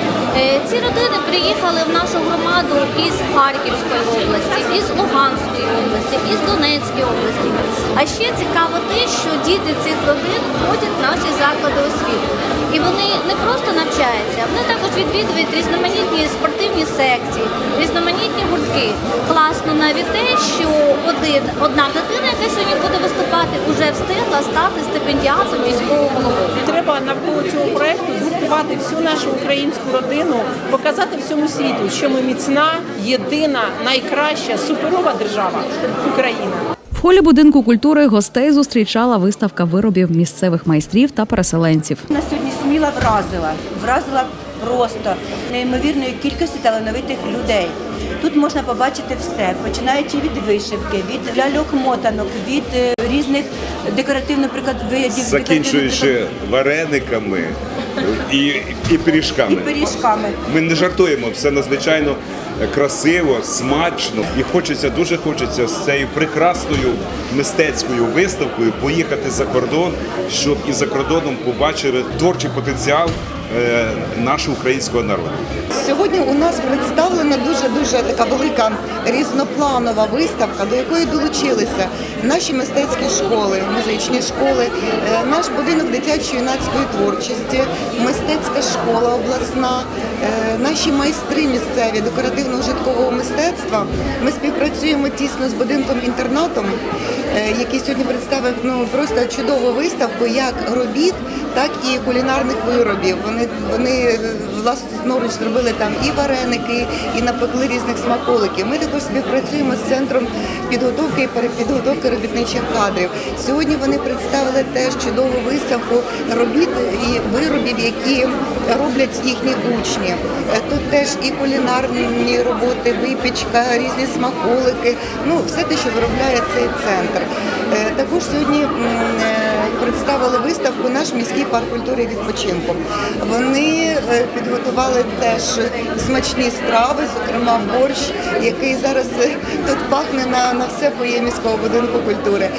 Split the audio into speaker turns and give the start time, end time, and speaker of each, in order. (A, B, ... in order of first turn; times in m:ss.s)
0:00.3-0:26.5 A
0:26.6-0:36.7 B
0:36.9-0:42.0 C
0:42.1-0:56.2 D
0:55.1-1:15.4 E
0:59.5-1:00.4 D
1:15.8-2:22.5 F